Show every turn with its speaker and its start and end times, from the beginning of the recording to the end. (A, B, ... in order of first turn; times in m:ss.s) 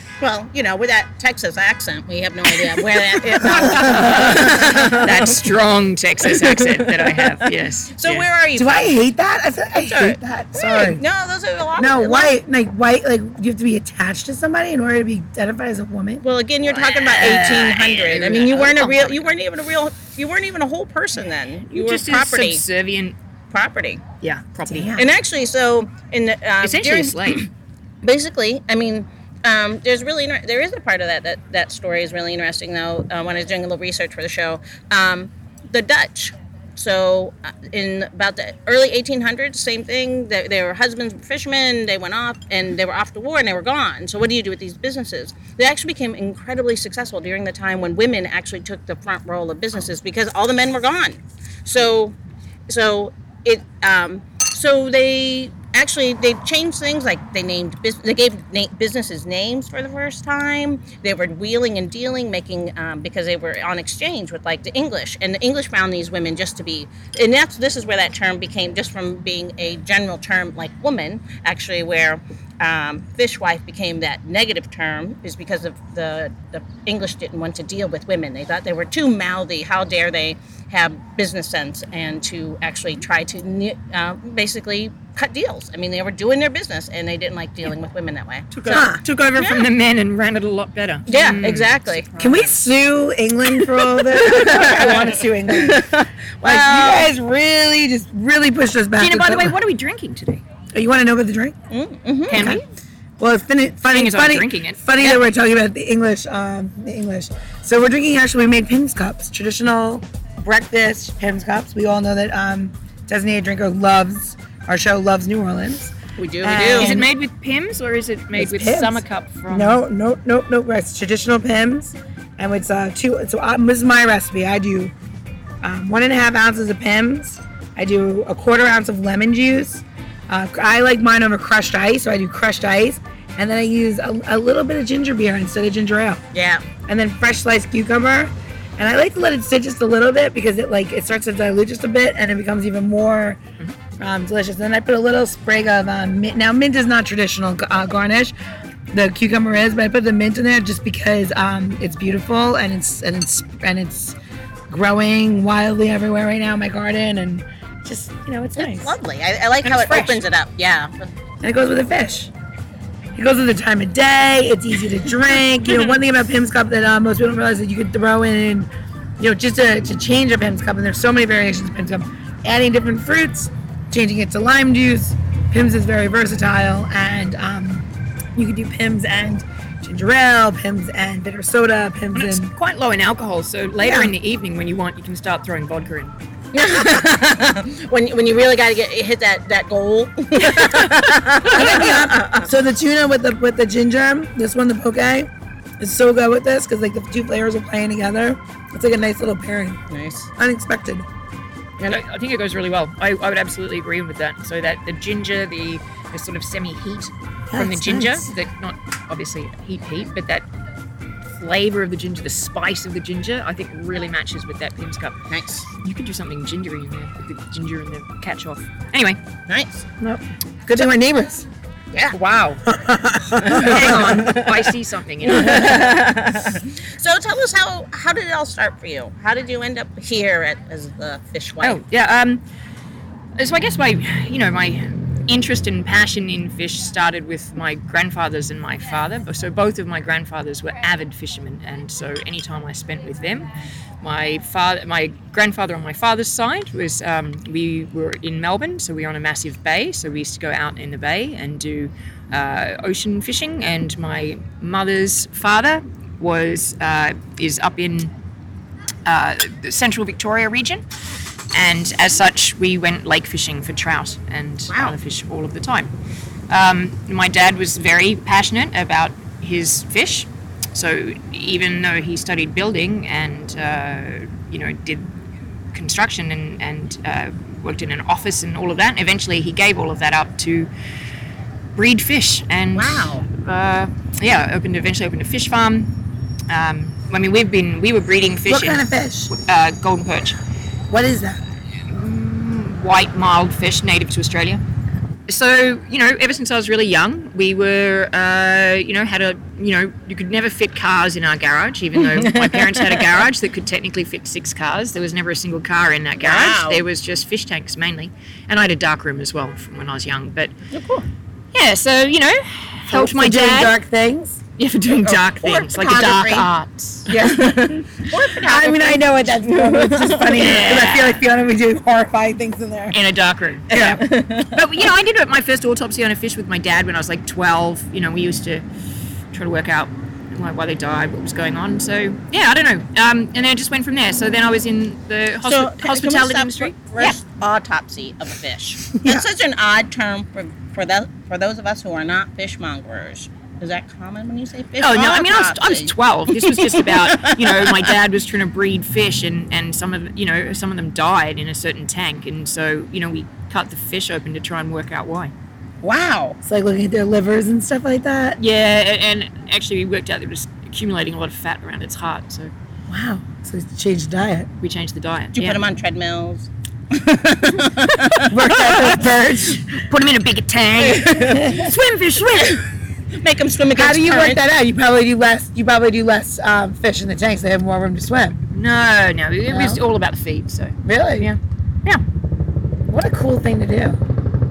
0:00.2-0:05.4 A
0:03.4-0:08.3 B
0:03.4-0:04.5 C
0:06.3-0:09.0 A
0:08.5-0:11.0 C
0:09.8-0:12.4 A
0:11.8-0:16.2 C
0:16.2-0:22.6 A
0:16.6-0:19.3 B
0:17.3-0:17.6 C
0:21.7-0:23.2 B
0:23.5-0:24.0 A
0:24.2-0:25.0 B
0:24.7-0:25.1 C
0:24.9-0:27.5 A
0:26.6-0:27.5 B
0:28.0-0:52.2 A
0:52.7-1:28.8 A
1:28.5-1:32.6 B
1:28.7-1:29.0 C
1:29.4-1:29.7 A
1:31.1-1:32.0 A
1:32.2-1:39.5 C
1:34.1-1:37.1 A
1:34.4-1:34.7 B
1:39.0-1:40.4 B
1:40.7-1:41.6 C
1:41.7-1:42.5 A
1:42.3-1:42.6 B
1:42.3-1:42.6 C
1:43.2-1:57.1 C
1:43.9-1:45.2 B
1:56.2-1:56.9 A
1:56.7-1:59.8 B
1:58.3-2:04.9 C
2:05.6-2:16.2 C
2:16.3-2:16.6 A
2:16.8-2:23.4 C
2:24.0-2:28.3 C
2:28.9-2:34.2 C
2:34.7-2:39.0 C
2:38.6-2:41.1 A
2:39.6-2:40.2 B
2:41.4-2:42.3 C
2:43.1-3:02.5 C
3:02.1-3:06.1 B
3:03.8-3:04.1 C
3:06.5-3:12.5 A
3:10.4-3:11.6 B
3:11.5-3:15.3 C
3:15.8-3:19.8 C
3:19.9-3:20.3 A
3:20.4-3:21.0 C
3:21.8-3:30.4 B
3:27.5-3:28.3 C
3:31.3-3:39.2 B
3:35.3-3:35.6 A
3:39.5-3:39.8 A
3:40.0-3:41.5 C
3:42.1-3:42.6 B
3:42.7-3:44.3 C
3:43.4-3:44.7 A
3:43.4-3:46.0 B
3:45.2-3:51.8 A
3:51.6-3:52.4 B
3:53.4-4:03.5 B
4:04.0-4:18.1 B
4:19.0-4:20.8 B
4:21.5-4:25.9 B
4:24.7-4:25.0 A
4:26.5-4:40.7 B
4:41.7-4:50.4 B
4:42.7-4:43.2 A
4:48.5-4:49.3 C
4:50.9-4:51.4 C
4:51.8-4:54.6 B
4:55.3-5:10.5 B
5:02.1-5:03.1 A
5:06.2-5:06.8 A
5:10.7-5:11.1 A
5:11.5-5:13.7 B
5:12.9-5:14.4 C
5:14.6-5:17.1 B
5:15.0-5:16.5 A
5:17.1-5:22.9 C
5:17.1-5:20.6 A
5:20.3-5:21.2 B
5:22.9-5:28.6 B
5:23.7-5:24.6 A
5:23.7-5:24.0 C
5:29.3-5:37.2 B
5:35.4-5:47.9 A
5:39.0-5:39.2 C
5:44.8-5:55.3 B
5:55.8-5:56.4 A
5:56.4-5:58.4 C
5:58.4-6:02.5 B
6:02.9-6:04.5 C
6:04.6-6:05.6 B
6:05.3-6:08.4 A
6:08.3-6:09.6 C
6:08.5-6:09.0 B
6:09.7-6:12.6 B
6:10.8-6:11.6 A
6:11.4-6:11.6 C
6:12.2-6:12.6 A
6:13.1-6:14.4 A
6:13.7-6:18.4 C
6:18.5-6:22.0 B
6:19.5-6:19.8 C
6:20.8-6:21.3 C
6:22.9-6:24.0 C